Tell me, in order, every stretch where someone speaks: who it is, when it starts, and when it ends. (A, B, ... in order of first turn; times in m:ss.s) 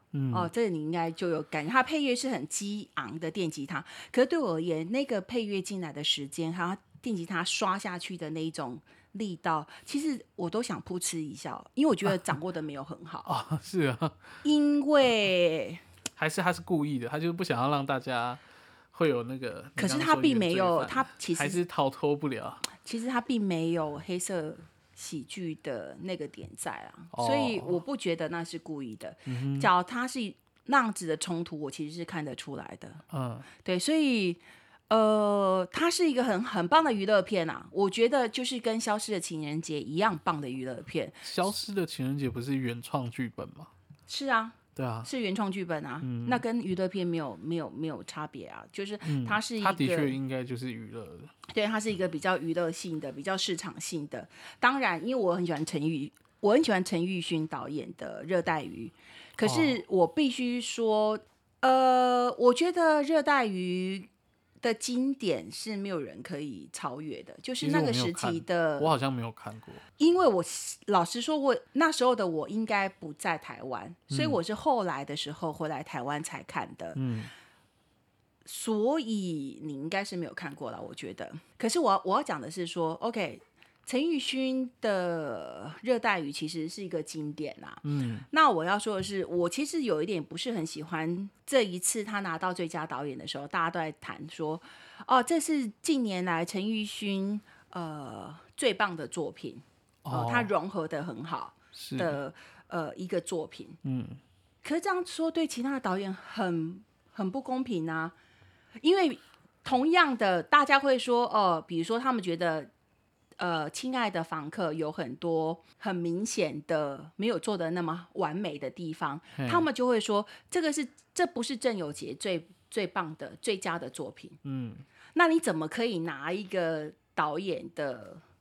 0:00.1-0:00.5 A
0:00.3-0:13.3 B
0:13.3-0:14.2 A
0:14.4-0:15.8 B
0:16.2-0:18.4 A
0:18.9-0:22.7 A
0:19.8-0:21.6 B
0:22.8-0:33.0 B
0:27.1-0:27.8 A
0:29.3-0:29.7 A
0:33.1-0:33.5 A
0:33.6-0:41.3 B
0:41.2-0:43.7 A
0:44.1-0:50.2 B
0:44.8-0:45.1 A
0:46.0-0:46.4 A
0:49.0-0:51.3 A
0:51.5-1:04.1 B
0:59.4-0:59.8 A
1:04.6-1:08.9 B
1:07.6-1:09.8 A
1:10.0-1:17.0 B
1:14.1-1:14.4 A
1:17.0-1:17.3 A
1:18.4-1:43.8 B
1:27.8-1:28.3 A
1:40.0-1:40.5 A
1:41.8-1:42.2 A
1:43.8-1:44.2 A
1:44.6-1:48.1 B
1:48.8-1:52.7 B
1:53.4-2:04.4 B
1:59.4-1:59.7 A
2:04.4-2:04.8 A
2:05.2-2:08.2 B